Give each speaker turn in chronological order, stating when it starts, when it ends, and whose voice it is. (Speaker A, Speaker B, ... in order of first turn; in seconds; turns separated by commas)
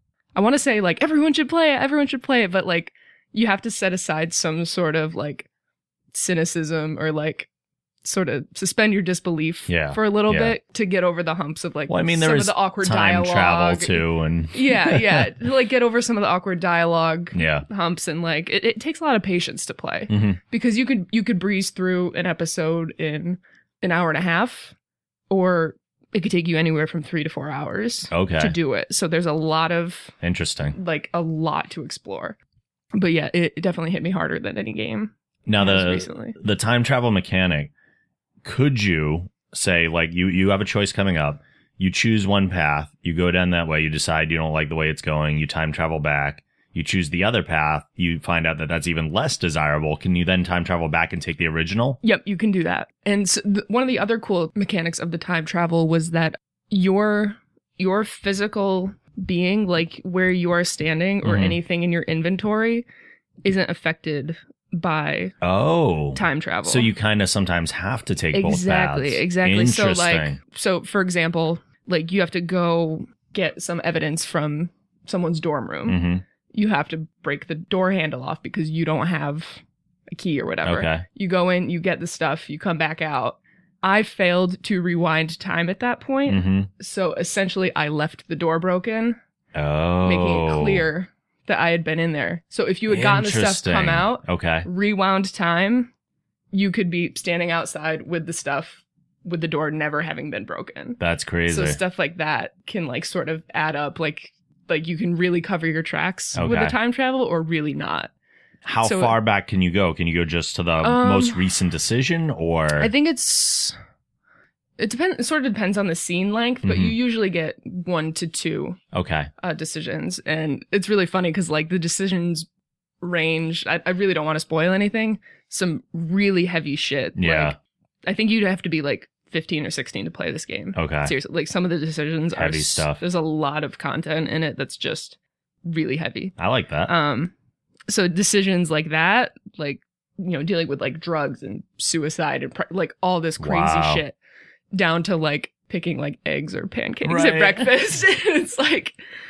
Speaker A: 0.3-5.5, Speaker A: 6.1-7.5, Speaker A: 8.0-24.7, Speaker B: 9.7-10.5, Speaker B: 11.9-15.3, Speaker B: 17.3-17.6, Speaker B: 20.1-20.4, Speaker A: 25.3-30.1, Speaker B: 28.1-28.6, Speaker B: 30.2-30.8, Speaker A: 30.7-32.4, Speaker A: 32.9-36.3, Speaker B: 35.5-37.7, Speaker B: 38.4-52.0, Speaker A: 52.0-62.8, Speaker B: 61.2-61.6, Speaker A: 63.4-65.3, Speaker B: 65.4-70.4, Speaker A: 66.1-66.9, Speaker A: 68.3-76.0, Speaker B: 75.8-76.2, Speaker A: 76.5-89.2, Speaker B: 80.6-81.0, Speaker B: 86.2-86.7, Speaker B: 89.5-90.8, Speaker A: 90.0-95.9, Speaker B: 92.9-94.7, Speaker A: 96.5-108.1, Speaker B: 101.0-101.8, Speaker B: 106.3-106.7, Speaker B: 108.6-112.9, Speaker A: 108.8-109.1, Speaker A: 110.8-111.4, Speaker A: 112.8-113.8, Speaker A: 114.8-118.8, Speaker B: 116.6-117.0, Speaker B: 118.9-119.3, Speaker A: 119.4-122.5, Speaker A: 123.0-136.3, Speaker B: 127.2-127.5, Speaker B: 130.7-131.1, Speaker B: 132.3-133.0, Speaker B: 136.4-136.9, Speaker A: 136.8-137.3, Speaker A: 137.9-144.2, Speaker B: 143.4-144.0, Speaker A: 144.7-149.0, Speaker B: 147.0-147.7